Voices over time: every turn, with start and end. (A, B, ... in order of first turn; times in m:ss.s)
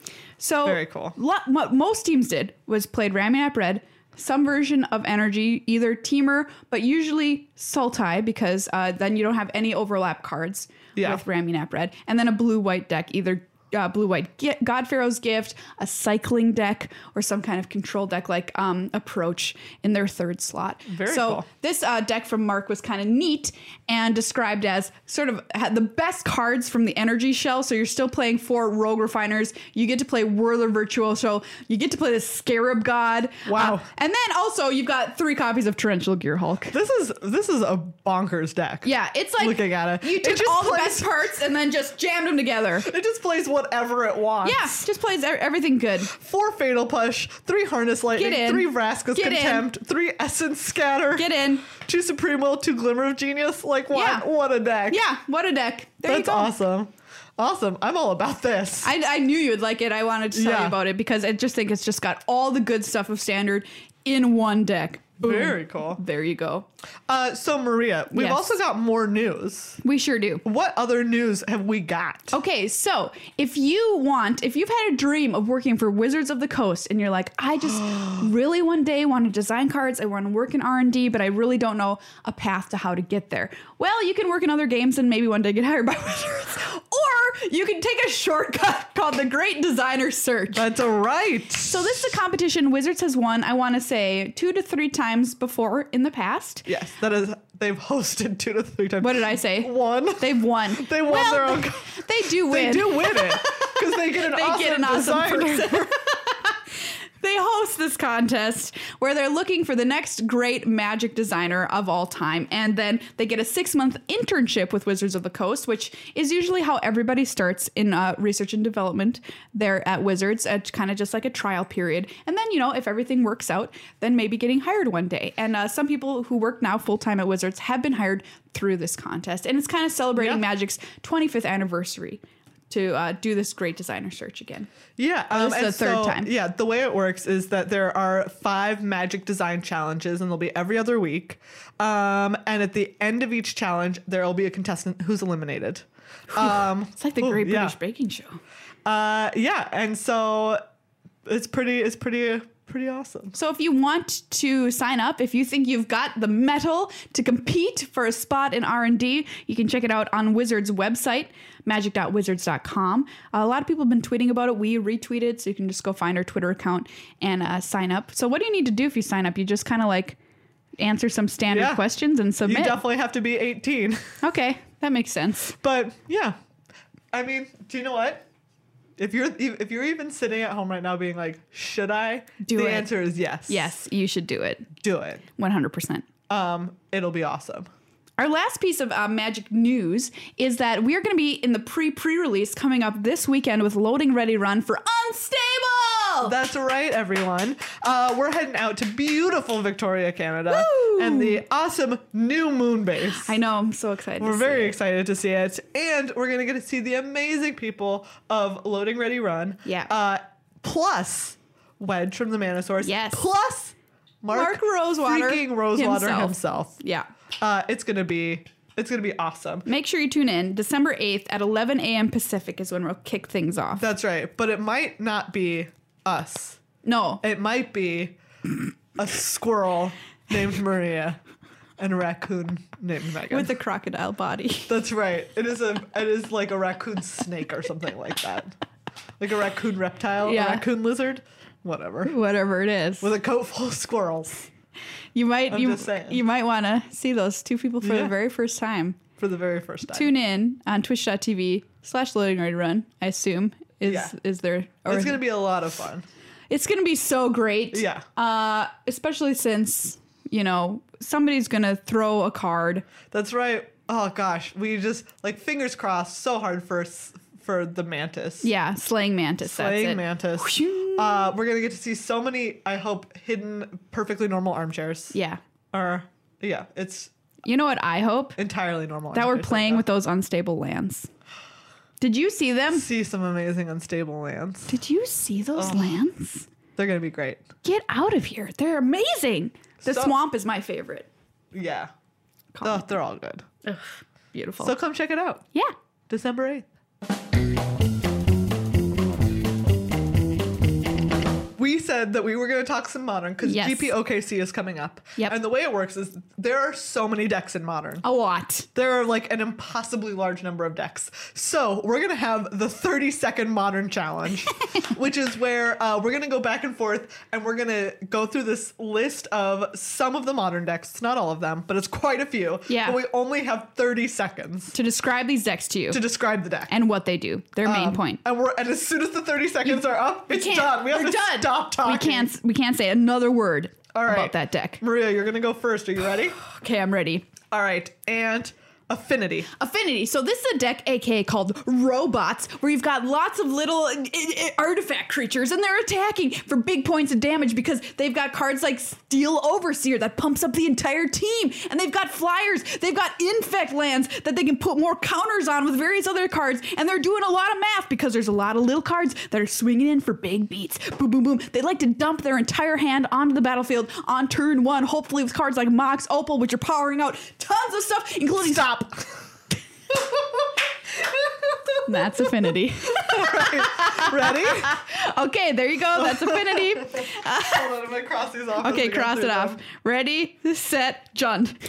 0:00.4-0:36.8 A
0:00.6-0:01.2 B
0:11.0-0:11.2 B
0:20.9-0:21.5 B
0:33.5-0:33.9 B
0:36.7-0:41.1 B
0:38.8-0:42.9 A
0:42.8-0:44.8 B
0:44.4-0:46.1 A
0:46.1-0:55.0 B
0:48.2-0:49.7 A
0:51.2-0:51.7 A
0:53.9-0:54.3 A
0:54.9-0:56.5 A
0:56.1-0:58.9 B
0:58.8-1:06.7 A
1:00.3-1:00.8 B
1:05.2-1:06.0 B
1:07.1-1:09.8 B
1:08.1-1:08.6 A
1:09.8-1:10.4 A
1:10.4-1:12.3 B
1:12.3-1:30.7 A
1:30.5-1:32.2 B
1:31.6-1:36.7 A
1:36.7-1:45.9 B
1:39.0-2:14.7 A
2:10.2-2:10.4 B
2:15.0-2:27.8 B
2:15.3-2:16.3 A
2:26.3-2:28.4 A
2:28.8-2:30.6 B
2:31.2-2:33.4 B
2:33.4-2:50.2 A
2:50.8-2:52.8 A
2:51.5-2:51.8 B
2:52.4-2:54.2 B
2:54.2-2:55.6 A
2:55.5-2:56.4 B
2:57.1-2:58.2 B
2:59.0-3:03.7 B
3:02.4-3:02.9 A
3:03.5-3:04.7 A
3:04.8-3:05.3 B
3:05.4-3:06.1 A
3:06.3-3:07.7 B
3:08.2-3:16.4 A
3:16.2-3:23.3 B
3:20.5-3:21.4 A
3:23.1-3:24.8 A
3:24.2-3:36.8 B
3:29.6-3:29.9 A
3:32.8-3:33.2 A
3:34.3-3:37.1 A
3:37.4-3:39.7 B
3:39.7-3:43.9 A
3:43.8-3:46.6 B
3:46.8-3:47.2 A
3:47.2-3:48.2 B
3:49.0-3:51.2 B
3:51.8-3:53.5 B
3:53.3-3:54.8 A
3:54.7-3:58.5 B
3:59.2-4:02.1 B
4:00.2-4:00.6 A
4:02.0-4:03.1 A
4:03.0-4:04.4 B
4:05.2-4:09.0 A
4:05.5-4:06.2 B
4:07.8-4:08.1 B
4:09.2-4:10.1 B
4:09.9-4:15.2 A
4:13.8-4:14.1 B
4:14.9-4:16.1 B
4:16.5-4:22.9 A
4:17.7-4:18.0 B
4:23.1-4:28.5 B
4:28.4-4:31.3 A
4:29.4-4:35.2 B
4:35.1-4:35.4 A
4:35.7-4:37.1 B
4:37.4-4:38.4 A
4:38.4-4:39.8 B
4:39.1-4:41.1 A
4:42.0-4:42.9 A
4:42.7-4:44.8 B
4:44.7-4:46.5 A
4:45.6-4:46.0 B
4:46.8-4:47.5 B
4:47.6-4:51.1 A
4:49.8-4:50.1 B
4:51.5-4:51.9 B
4:52.5-4:52.9 A
4:52.6-4:53.5 B
4:53.6-4:54.8 A
4:54.6-4:55.5 B
4:56.1-4:56.7 B
5:01.6-5:08.0 B
5:03.4-5:03.9 A
5:08.0-5:08.7 A
5:08.8-5:24.8 B
5:22.7-5:23.0 A
5:24.7-5:26.0 A
5:25.9-5:26.7 B
5:26.7-5:28.2 A
5:27.6-5:32.3 B
5:29.7-5:34.8 A
5:34.0-5:36.4 B
5:36.4-5:37.3 A
5:37.5-5:39.5 B
5:39.6-6:08.9 A
6:08.4-6:09.1 B
6:09.9-6:14.8 B
6:11.8-6:17.7 A
6:16.0-6:19.6 B
6:18.6-6:21.6 A